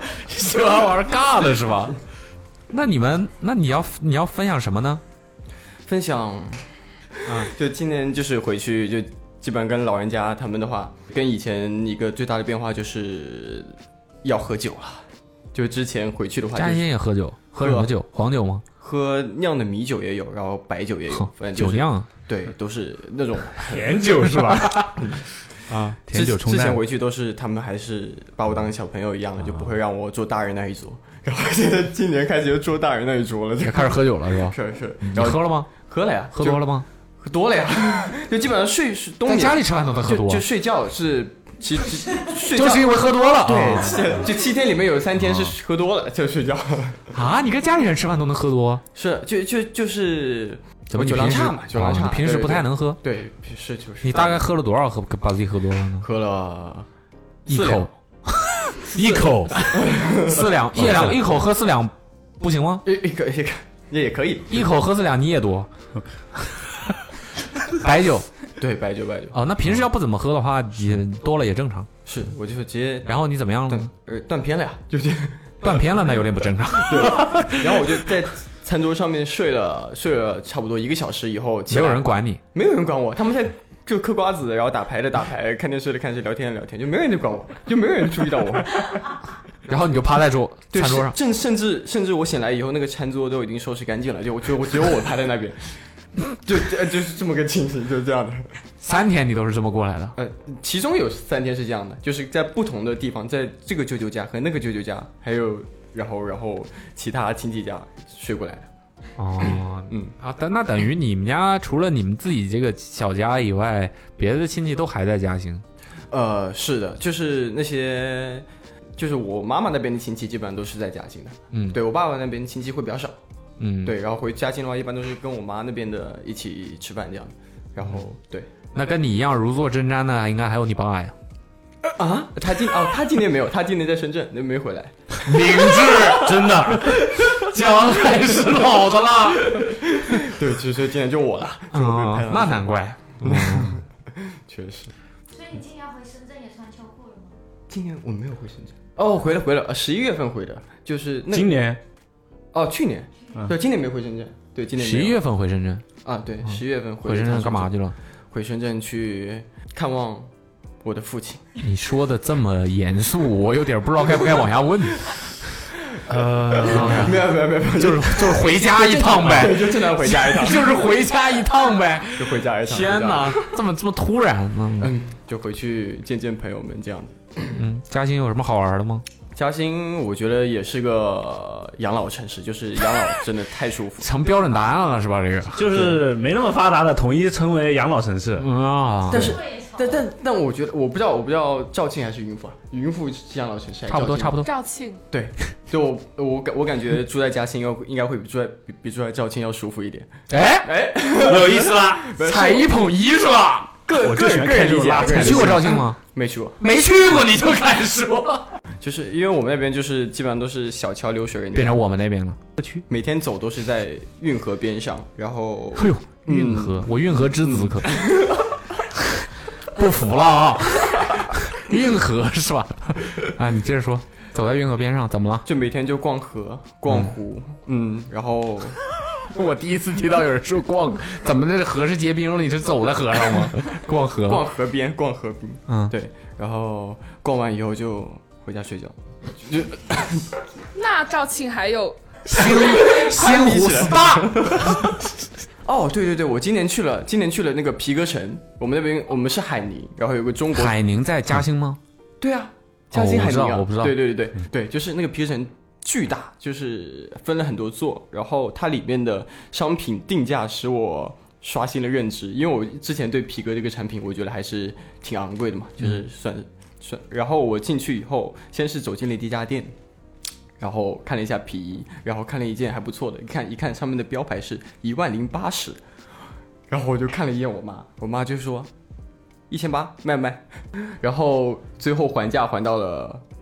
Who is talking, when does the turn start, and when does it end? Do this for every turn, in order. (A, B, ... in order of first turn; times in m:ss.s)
0:00.2-0:02.0 A
0:02.7-0:05.0 A
0:05.8-0:06.6 B
0:07.2-0:07.5 A
0:07.3-0:16.9 B
0:16.5-0:18.6 A
0:17.6-0:17.9 B
0:18.8-0:24.0 B
0:21.1-0:22.1 A
0:23.7-0:24.9 C
0:24.3-0:24.9 A
0:25.7-0:26.1 A
0:26.1-0:26.8 C
0:26.1-0:47.1 B
0:33.6-0:35.7 A
0:36.3-0:36.8 A
0:39.2-0:40.4 A
0:42.5-0:44.1 A
0:47.1-0:48.8 A
0:48.9-0:54.4 B
0:50.9-0:53.0 A
0:54.0-0:56.0 A
0:56.0-0:56.9 B
0:57.5-0:57.9 A
0:57.5-0:57.9 B
0:58.4-1:02.8 A
0:58.9-0:59.6 C
0:59.7-1:00.4 B
1:00.8-1:01.1 C
1:02.8-1:04.7 B
1:04.5-1:05.7 A
1:07.7-1:08.3 A
1:08.6-1:09.4 B
1:09.3-1:11.9 A
1:12.0-1:13.2 B
1:13.0-1:13.9 A
1:13.7-1:16.1 B
1:15.6-1:18.0 A
1:16.7-1:28.9 B
1:21.7-1:22.4 A
1:29.7-1:31.2 A
1:30.7-1:35.7 B
1:36.4-1:38.5 B
1:38.8-1:40.2 A
1:40.2-1:48.7 B
1:49.2-1:55.6 A
1:56.1-2:03.2 B
2:01.5-2:01.8 A
2:03.6-2:04.0 A
2:03.8-2:08.5 B
2:08.7-2:11.1 A
2:11.8-2:16.0 B
2:15.2-2:19.6 A
2:16.2-2:16.9 C
2:19.4-2:24.9 B
2:21.7-2:23.8 A
2:25.3-2:27.3 D
2:27.7-2:31.6 B
2:31.3-2:31.8 C
2:32.5-2:35.2 B
2:34.8-2:35.8 A
2:36.0-2:37.7 B
2:36.4-2:37.9 A
2:38.3-2:40.3 B
2:40.8-2:41.4 B
2:41.6-2:45.2 A
2:46.1-2:47.1 C
2:46.5-2:54.9 A
2:46.5-2:50.8 B
2:52.2-2:53.5 B
2:54.8-2:57.6 B
2:57.6-2:59.0 A
2:59.3-3:04.1 B
3:04.0-3:05.6 A
3:05.6-3:08.4 C
3:08.4-3:09.4 A
3:09.1-3:14.4 B
3:09.1-3:10.1 D
3:13.9-3:14.5 A
3:14.4-3:15.0 E
3:15.1-3:20.1 B
3:20.3-3:20.7 A
3:20.6-3:22.8 B
3:21.2-3:22.1 C
3:22.2-3:23.8 A
3:23.8-3:26.6 B
3:24.0-3:25.6 C
3:25.0-3:26.0 A
3:26.6-3:28.4 A
3:28.8-3:31.8 B
3:31.5-3:32.8 A
3:32.9-3:38.3 B
3:35.7-3:38.0 A
3:39.7-3:45.4 A
3:45.4-3:48.8 B
3:46.9-3:47.1 A
3:49.3-3:54.5 A
3:54.1-4:00.2 B
3:55.7-3:55.9 A
4:00.7-4:02.2 E
4:02.3-4:04.9 A
4:02.3-4:04.9 B
4:05.6-4:10.8 B
4:10.5-4:11.8 A
4:12.2-4:29.7 B
4:12.9-4:14.1 A
4:30.6-4:35.8 B
4:36.7-4:38.7 B
4:39.5-4:43.2 B